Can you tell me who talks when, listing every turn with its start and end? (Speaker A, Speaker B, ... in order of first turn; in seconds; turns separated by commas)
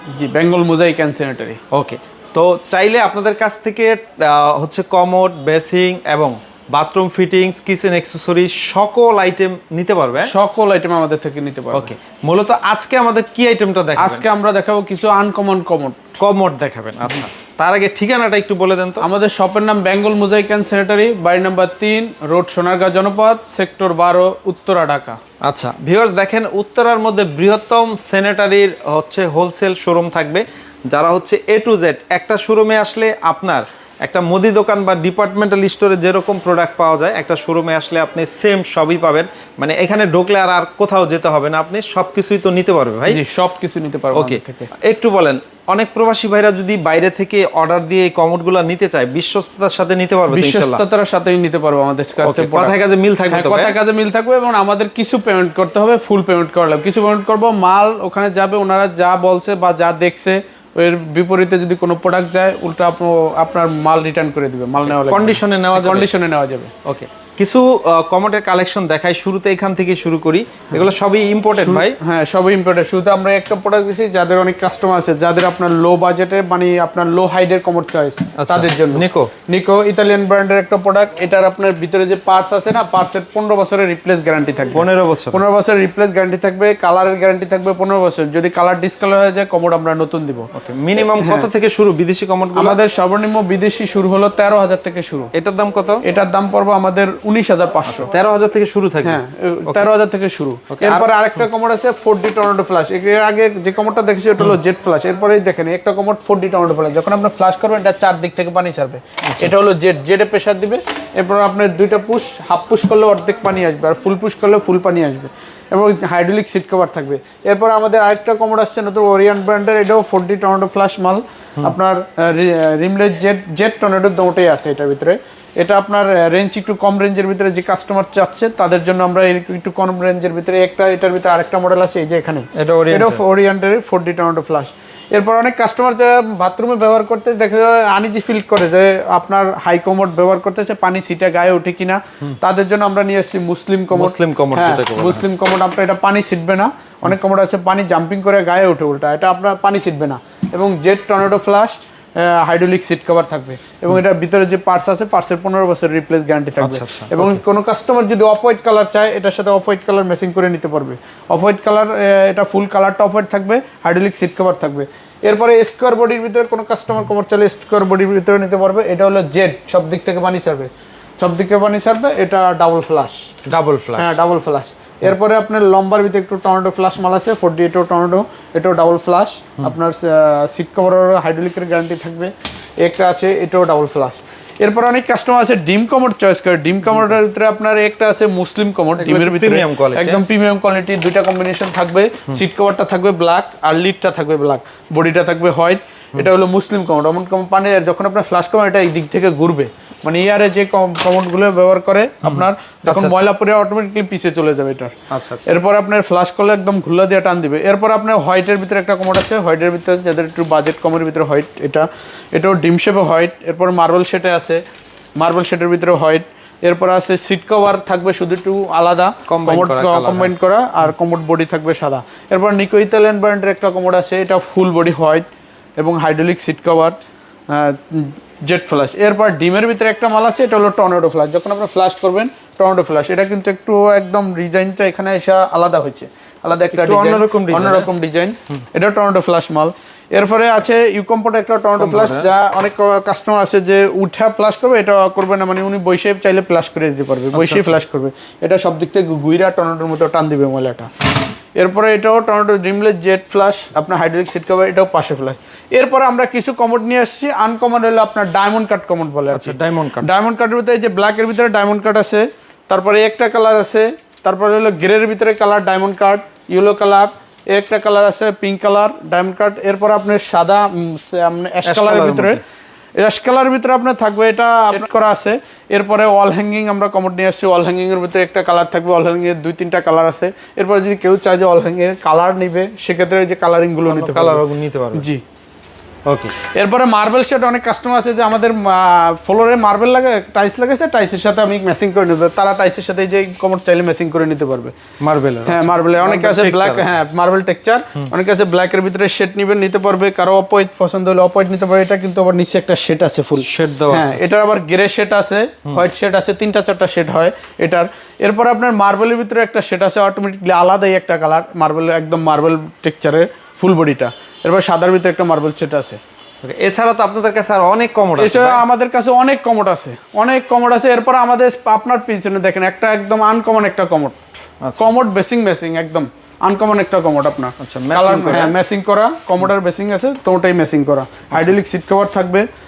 Speaker A: 0.1-1.6, Speaker B: 1.7-10.3, Speaker A: 10.2-11.9, Speaker B: 11.7-14.2, Speaker A: 14.0-16.0, Speaker B: 16.2-19.1, Speaker A: 19.0-25.2, Speaker B: 25.4-43.2, Speaker A: 43.1-44.7, Speaker B: 44.1-50.8, Speaker A: 50.3-52.8, Speaker B: 52.2-53.8, Speaker A: 53.3-66.7, Speaker B: 64.8-66.1, Speaker B: 66.8-72.0, Speaker A: 71.6-90.5, Speaker B: 78.4-79.3, Speaker B: 84.7-85.4, Speaker B: 90.5-92.8, Speaker A: 91.1-91.5, Speaker A: 92.5-95.3, Speaker B: 95.3-96.0, Speaker A: 96.0-98.1, Speaker B: 97.9-99.9, Speaker A: 99.0-173.3, Speaker B: 100.7-101.1, Speaker B: 109.3-109.5, Speaker B: 132.5-133.2, Speaker B: 143.9-145.2, Speaker B: 156.6-157.4, Speaker B: 173.4-174.0, Speaker A: 174.0-204.9, Speaker B: 189.0-190.2, Speaker B: 202.2-203.2, Speaker B: 205.1-205.4, Speaker A: 205.5-214.6, Speaker A: 215.2-225.2, Speaker B: 219.3-220.3, Speaker A: 225.8-226.9, Speaker A: 227.5-250.9, Speaker B: 236.7-237.9, Speaker B: 241.8-242.3, Speaker B: 247.3-247.8, Speaker A: 251.6-272.4, Speaker B: 259.3-260.1, Speaker B: 271.6-272.4, Speaker A: 273.0-285.2, Speaker B: 283.9-285.1, Speaker B: 286.1-286.3, Speaker A: 286.5-294.7, Speaker B: 295.0-296.9, Speaker A: 295.4-316.0, Speaker B: 303.4-304.2, Speaker B: 316.4-318.6, Speaker A: 318.2-324.2, Speaker B: 324.6-324.9, Speaker A: 324.8-332.4, Speaker B: 327.6-328.6